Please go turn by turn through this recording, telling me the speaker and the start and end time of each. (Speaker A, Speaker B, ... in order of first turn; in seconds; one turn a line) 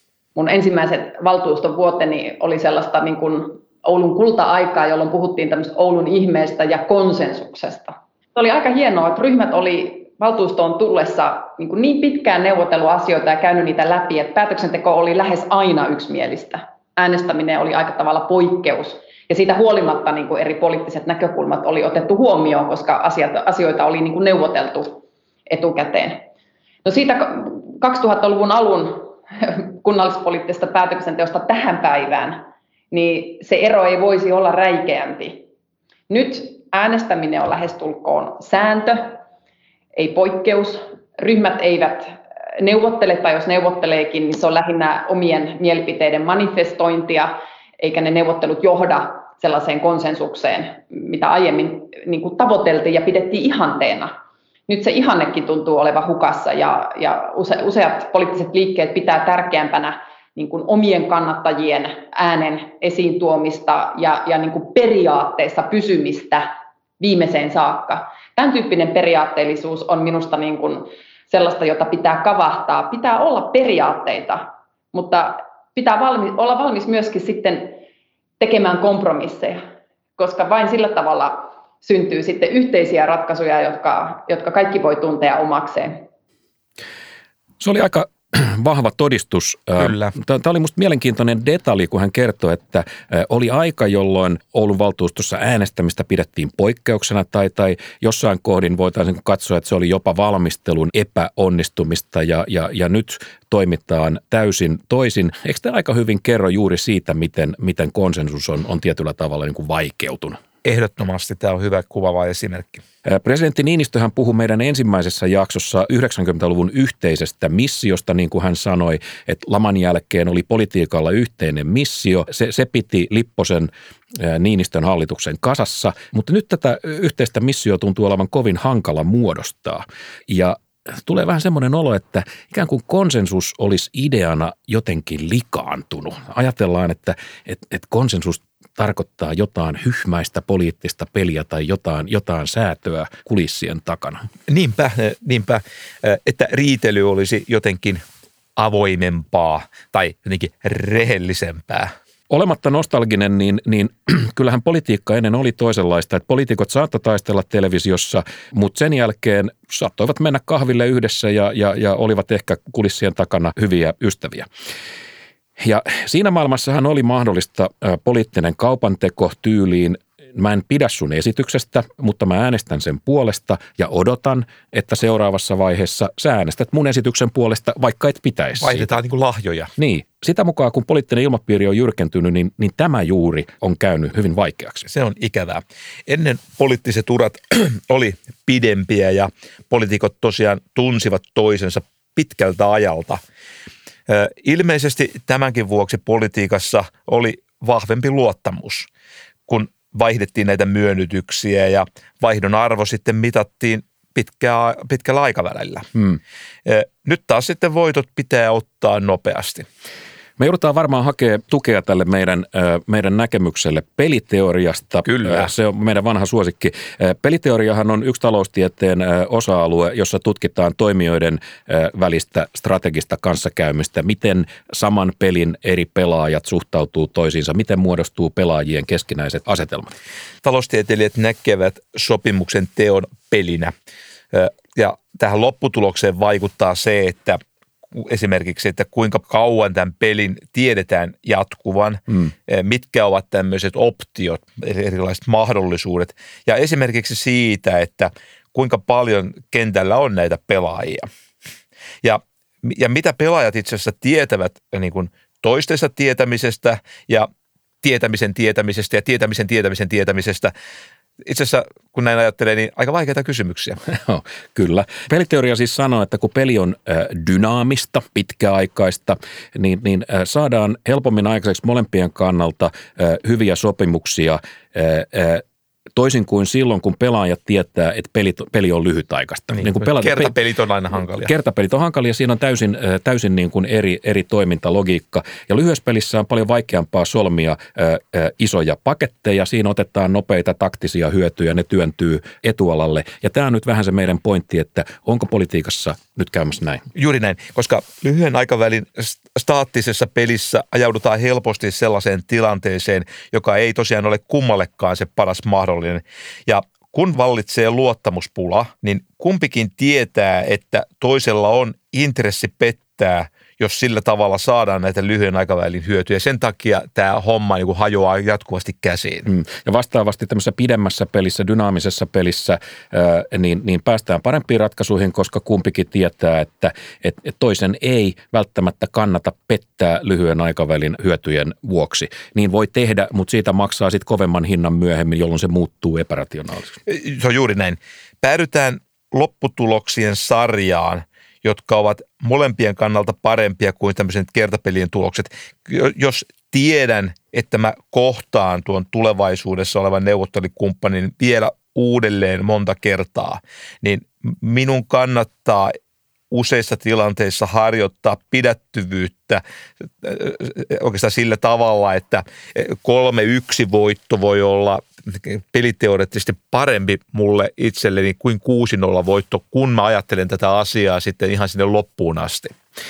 Speaker A: 0.4-26.2
Speaker A: 26.9-35.4
Speaker A: 36.1-39.2
Speaker A: 40.0-54.1
Speaker A: 54.7-77.8
Speaker A: 78.4-79.6
Speaker A: 80.2-86.0
Speaker B: 87.6-110.4
Speaker C: 89.8-90.1
Speaker C: 110.6-112.8
Speaker B: 113.0-144.2
Speaker C: 144.5-148.0
Speaker C: 148.6-151.9
Speaker B: 152.3-164.5
Speaker B: 165.6-178.9
Speaker C: 178.6-179.7
Speaker B: 179.8-184.9
Speaker C: 184.9-193.2
Speaker C: 194.1-198.9
Speaker C: 199.5-205.9
Speaker C: 206.7-209.7
Speaker B: 210.4-229.9
Speaker C: 215.1-215.5
Speaker C: 230.4-233.7
Speaker C: 234.3-237.4
Speaker C: 237.9-251.1
Speaker C: 252.0-257.3
Speaker C: 257.8-260.5
Speaker C: 261.2-263.8
Speaker B: 263.9-275.4
Speaker B: 275.9-280.3
Speaker C: 279.5-281.3
Speaker B: 281.2-296.8
Speaker C: 296.9-319.3
Speaker B: 319.3-336.8
Speaker C: 336.9-355.8
Speaker C: 356.3-359.4
Speaker C: 360.0-372.5